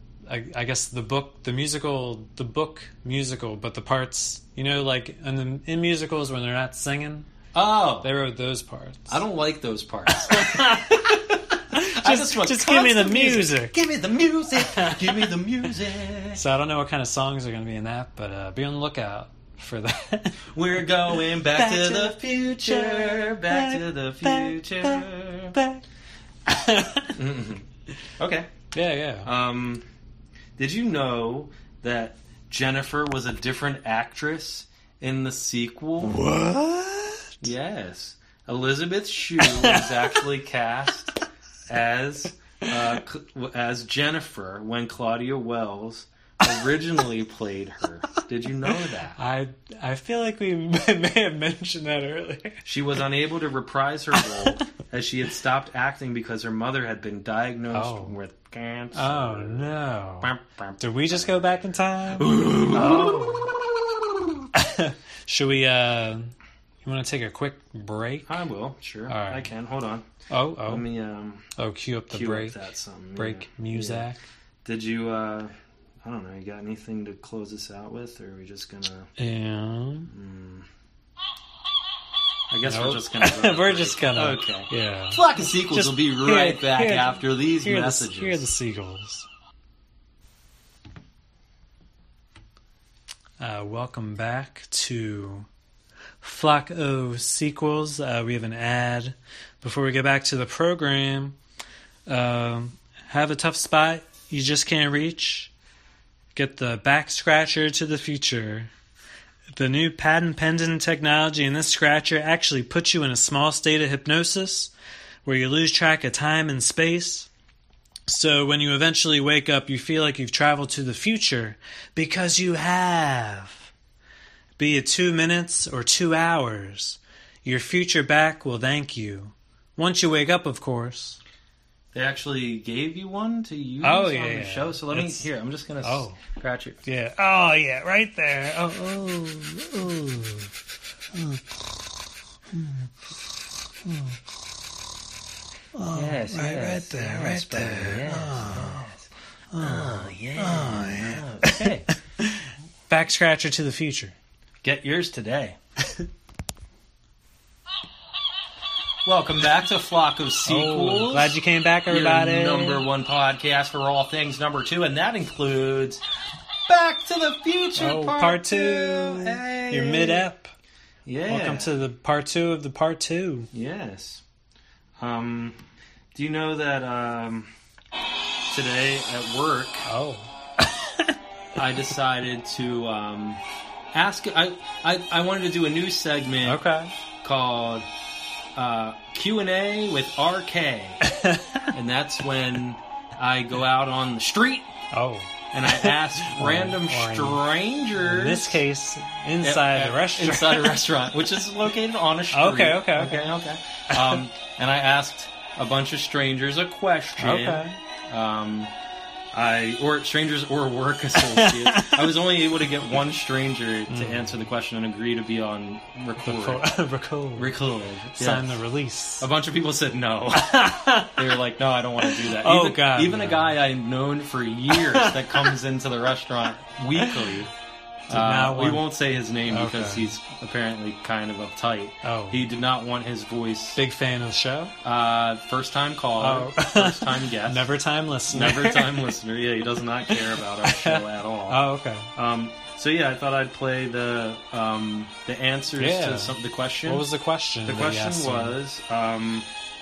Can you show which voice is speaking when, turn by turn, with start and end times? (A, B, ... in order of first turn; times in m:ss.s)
0:00.3-0:07.3 A
0:07.5-0:08.1 B
0:08.0-0:09.2 A
0:09.1-0:11.3 B
0:10.2-0:11.2 A
0:11.7-0:13.8 A
0:11.8-0:16.4 B
0:14.6-0:15.3 A
0:16.3-0:20.4 A
0:20.5-0:25.6 B
0:21.1-0:25.8 A
0:26.5-0:27.2 A
0:27.1-0:27.6 B
0:28.2-0:28.5 B
0:28.7-0:29.3 A
0:29.2-0:29.8 B
0:30.6-0:36.2 B
0:36.0-0:37.3 A
0:37.4-0:41.2 B
0:39.4-0:40.2 A
0:41.7-0:49.2 B
0:49.2-0:52.6 A
0:52.6-1:04.4 B
0:57.7-0:58.1 A
0:58.9-1:03.5 A
1:04.5-1:06.3 A
1:06.8-1:08.4 A
1:08.2-1:10.0 B
1:09.1-1:09.5 A
1:10.3-1:10.9 A
1:10.6-1:11.5 B
1:11.6-1:12.6 A
1:12.1-1:14.1 B
1:13.2-1:14.2 A
1:14.6-1:19.1 B
1:19.2-1:20.1 A
1:20.0-1:20.7 B
1:22.5-1:28.5 B
1:22.6-1:29.3 A
1:33.4-1:35.5 A
1:36.2-1:41.4 A
1:42.1-1:45.5 A
1:46.3-1:48.7 A
1:49.5-1:54.7 A
1:55.2-1:57.3 A
1:58.1-2:03.7 A
2:04.6-2:11.2 A
2:11.9-2:16.8 B
2:13.8-2:15.3 A
2:15.8-2:16.2 A
2:16.8-2:20.5 A
2:21.1-2:21.4 A
2:22.5-2:22.9 A
2:23.8-2:24.2 A
2:25.7-2:28.9 A
2:25.9-2:31.9 B
2:29.5-2:34.1 A
2:34.6-2:35.6 B
2:39.0-2:41.4 B
2:40.4-2:42.8 A
2:41.9-2:46.0 B
2:46.7-2:50.2 B
2:47.8-2:50.5 A
2:51.0-2:51.7 B
2:51.3-2:53.5 A
2:53.5-2:54.2 B
2:55.0-2:55.6 B
2:56.1-2:57.5 B
2:58.5-2:59.9 B
2:59.8-3:01.1 A
3:01.6-3:06.6 B
3:06.4-3:06.9 A
3:07.2-3:07.9 B
3:08.5-3:11.0 B
3:11.0-3:11.7 A
3:11.7-3:14.7 B
3:14.9-3:17.4 A
3:15.5-3:18.6 B
3:18.0-3:20.9 A
3:19.4-3:28.7 B
3:22.3-3:23.2 A
3:23.9-3:24.2 A
3:27.2-3:27.8 A
3:29.3-3:36.7 B
3:31.1-3:32.1 A
3:33.9-3:34.4 A
3:36.2-3:37.5 A
3:37.4-3:38.6 B
3:38.1-3:39.3 A
3:39.2-3:47.5 B
3:40.3-3:41.2 A
3:42.0-3:43.6 A
3:44.7-3:45.6 A
3:47.0-3:47.3 A
3:48.1-3:48.9 A
3:48.1-3:53.8 B
3:49.5-3:50.1 A
3:52.0-3:52.4 A
3:53.8-3:54.7 A
3:54.8-3:57.7 B
3:56.2-3:59.1 A
3:58.3-4:07.1 B
4:00.1-4:02.1 A
4:05.8-4:08.6 A
4:07.6-4:09.5 B